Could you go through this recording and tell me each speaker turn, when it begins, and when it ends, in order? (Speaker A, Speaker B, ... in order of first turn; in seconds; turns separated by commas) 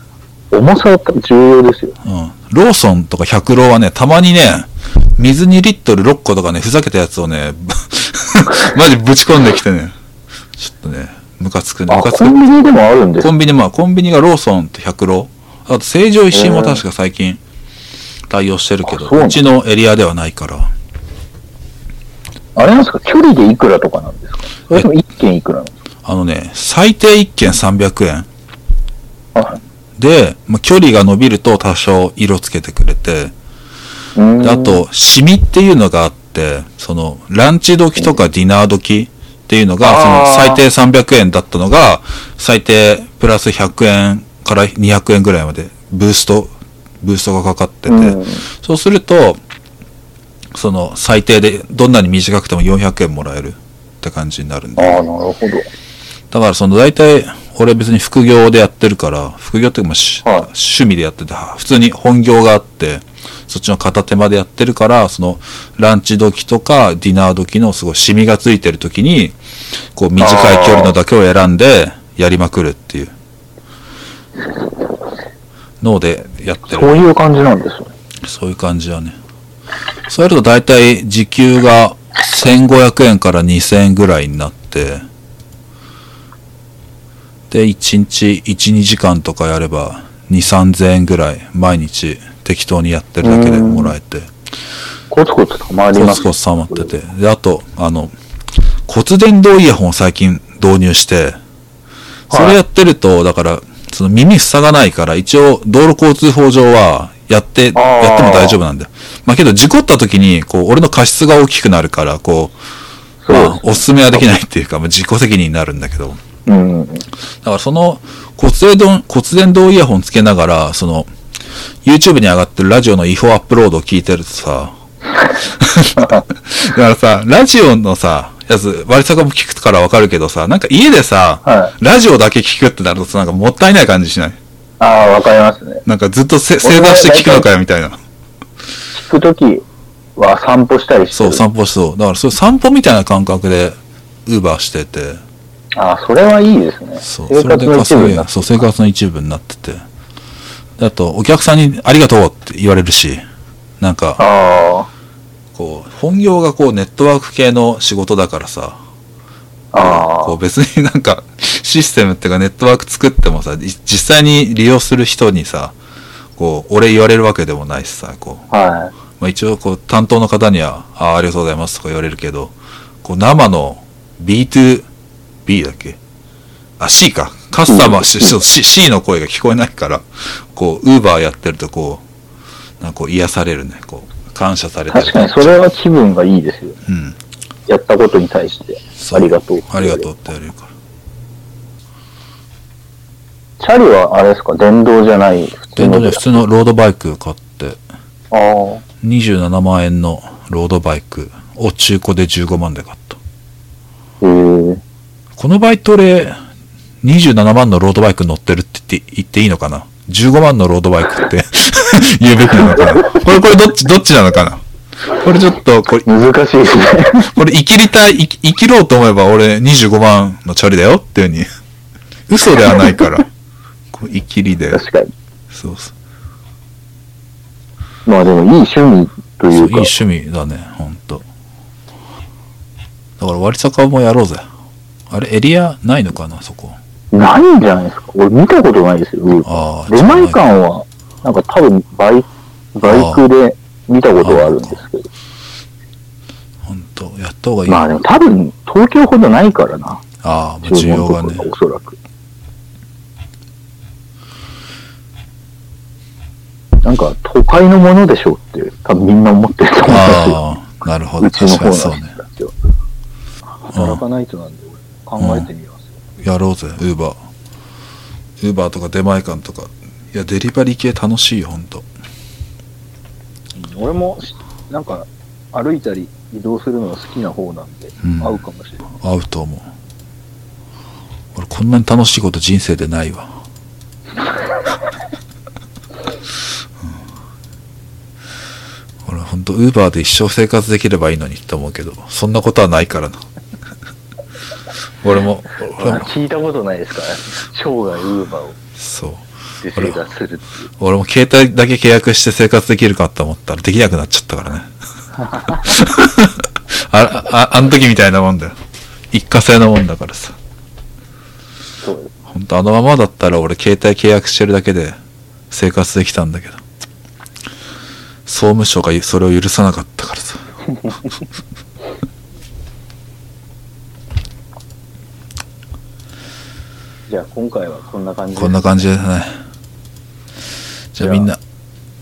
Speaker A: 0.5-1.9, Speaker B: 2.0-9.9, Speaker B: 10.6-12.5, Speaker A: 11.9-13.3, Speaker B: 13.2-17.4, Speaker A: 16.3-16.8, Speaker B: 18.3-20.7, Speaker A: 18.9-19.4, Speaker A: 22.6-25.7, Speaker B: 26.0-28.3, Speaker B: 30.0-33.3, Speaker A: 34.1-34.8, Speaker B: 34.4-49.4, Speaker A: 39.8-40.6, Speaker A: 47.9-48.4, Speaker B: 50.5-55.0, Speaker A: 54.8-55.6, Speaker B: 56.3-69.3, Speaker A: 60.2-60.5, Speaker B: 70.0-73.1, Speaker A: 70.2-71.0, Speaker B: 75.8-77.0, Speaker A: 76.6-77.9, Speaker B: 78.2-79.2, Speaker B: 80.1-85.0, Speaker B: 87.5-94.3, Speaker A: 93.2-93.9, Speaker A: 95.1-96.9, Speaker B: 95.9-98.1, Speaker B: 98.9-101.4, Speaker A: 102.3-102.6, Speaker B: 102.3-112.5, Speaker A: 107.7-108.6, Speaker A: 113.2-114.2, Speaker B: 113.3-116.2, Speaker A: 116.5-117.0, Speaker B: 117.4-121.1, Speaker B: 121.8-124.7, Speaker B: 125.5-134.4, Speaker A: 131.4-131.7, Speaker A: 134.8-135.8, Speaker B: 135.8-138.0, Speaker A: 136.6-137.5, Speaker A: 138.9-141.4, Speaker B: 141.1-145.2, Speaker A: 145.8-148.7, Speaker B: 147.0-149.8, Speaker B: 150.8-153.2, Speaker B: 153.8-154.2, Speaker A: 154.2-154.9, Speaker B: 155.5-158.8, Speaker A: 159.7-160.3, Speaker B: 159.7-165.8, Speaker B: 166.4-168.4, Speaker A: 168.5-168.9, Speaker B: 169.2-174.9, Speaker B: 175.4-176.0, Speaker B: 176.8-182.0, Speaker A: 177.7-178.4, Speaker B: 182.8-185.6, Speaker A: 184.9-186.8, Speaker B: 186.8-187.2, Speaker A: 187.7-190.1, Speaker B: 189.0-190.7, Speaker A: 193.6-196.4, Speaker B: 195.8-197.8, Speaker A: 198.3-198.8, Speaker B: 199.0-203.2, Speaker A: 204.2-204.8, Speaker B: 205.3-206.3, Speaker B: 207.0-214.6, Speaker B: 215.2-216.1, Speaker A: 216.1-217.3, Speaker B: 217.2-221.4, Speaker B: 222.3-223.3, Speaker B: 223.9-224.8, Speaker A: 224.7-225.1, Speaker B: 225.5-225.9, Speaker A: 228.1-229.9, Speaker B: 229.5-231.2, Speaker B: 233.2-234.4, Speaker B: 235.1-236.8, Speaker A: 237.1-245.1, Speaker B: 239.4-240.4, Speaker B: 242.8-243.2, Speaker B: 244.2-244.8, Speaker B: 246.6-247.9, Speaker A: 247.7-250.0, Speaker B: 250.2-251.5, Speaker A: 250.6-252.0, Speaker A: 256.8-260.4, Speaker B: 259.9-262.1, Speaker A: 261.2-262.5, Speaker A: 263.6-265.9, Speaker B: 263.7-264.0, Speaker B: 265.2-265.5, Speaker B: 266.2-267.2, Speaker B: 268.4-271.9, Speaker A: 273.6-278.8, Speaker B: 278.0-278.4, Speaker B: 279.0-279.7, Speaker B: 281.3-283.3, Speaker B: 289.0-293.2, Speaker B: 295.0-296.1, Speaker A: 295.7-298.6, Speaker B: 298.8-300.0, Speaker A: 299.6-300.7, Speaker B: 300.8-304.7, Speaker A: 305.2-305.6, Speaker B: 305.5-308.6, Speaker B: 309.1-310.4, Speaker A: 311.8-312.1, Speaker B: 312.3-314.9, Speaker B: 315.5-316.6, Speaker B: 318.2-320.4, Speaker A: 327.1-328.9, Speaker B: 328.4-329.3, Speaker B: 330.9-331.4, Speaker A: 331.0-331.3